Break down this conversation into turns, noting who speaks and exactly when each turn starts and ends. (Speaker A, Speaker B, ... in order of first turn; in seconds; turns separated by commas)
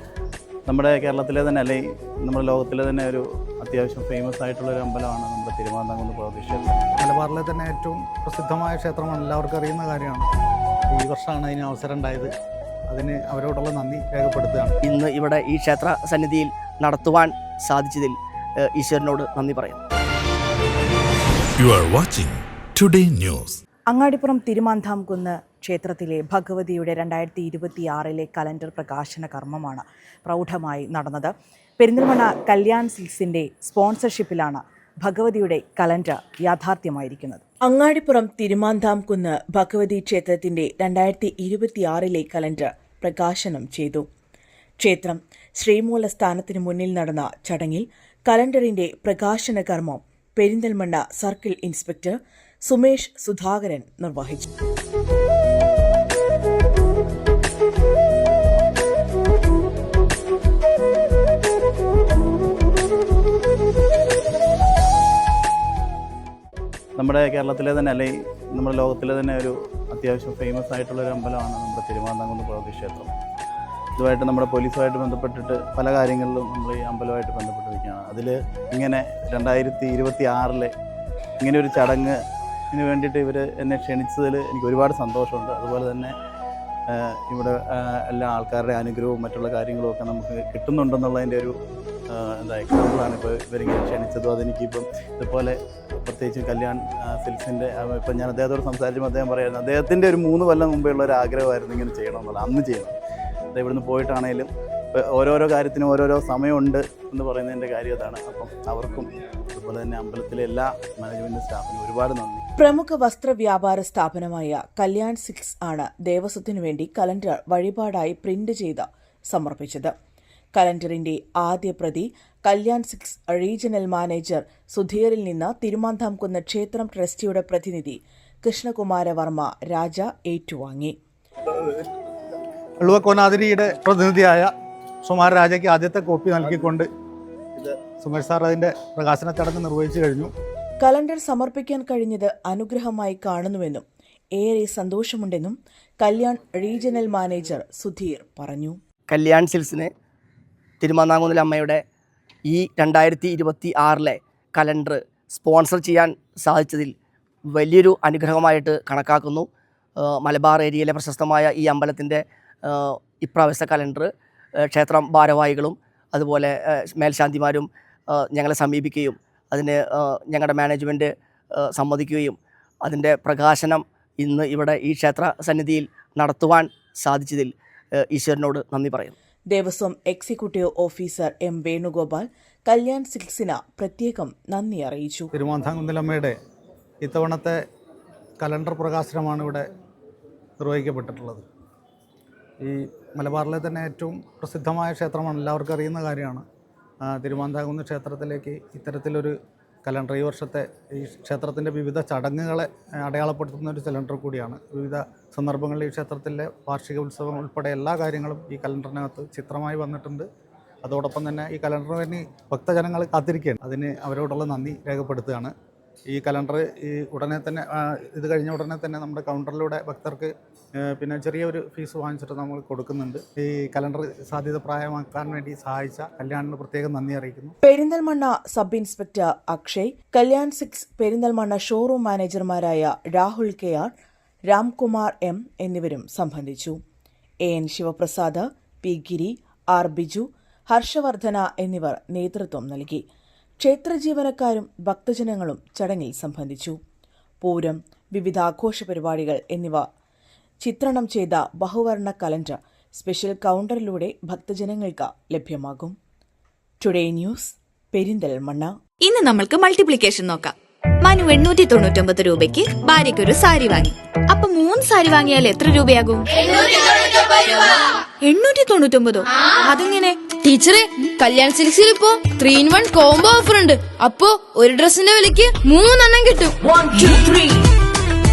Speaker A: 0.7-6.8, Speaker B: 7.0-10.2, Speaker B: 10.9-12.3, Speaker B: 12.9-14.8, Speaker C: 14.8-19.8, Speaker D: 21.6-23.6, Speaker E: 23.9-44.0, Speaker E: 44.8-54.5, Speaker A: 67.0-73.1, Speaker A: 74.0-80.7, Speaker A: 81.4-82.2, Speaker A: 82.7-86.1, Speaker A: 86.9-91.5, Speaker A: 92.1-102.9, Speaker A: 103.5-112.4, Speaker E: 112.6-119.9, Speaker E: 120.5-130.9, Speaker B: 132.8-134.5, Speaker B: 135.0-136.9, Speaker B: 138.0-140.3, Speaker E: 140.8-143.8, Speaker E: 144.3-148.8, Speaker C: 149.1-149.9, Speaker C: 150.8-151.8, Speaker C: 152.5-156.9, Speaker C: 157.5-159.5, Speaker C: 160.0-164.1, Speaker C: 164.6-177.5, Speaker C: 178.1-179.1, Speaker E: 179.5-185.3, Speaker B: 185.3-186.3, Speaker B: 187.0-187.6, Speaker B: 188.4-189.7, Speaker B: 190.6-191.4, Speaker B: 192.6-196.4, Speaker B: 197.0-210.2, Speaker B: 210.8-215.5, Speaker B: 216.1-227.5, Speaker E: 227.6-233.9, Speaker E: 234.5-236.8, Speaker E: 237.4-243.0, Speaker E: 243.6-246.8, Speaker E: 247.4-249.8, Speaker E: 250.6-255.9, Speaker E: 256.8-258.7, Speaker F: 259.0-270.3, Speaker G: 270.4-277.5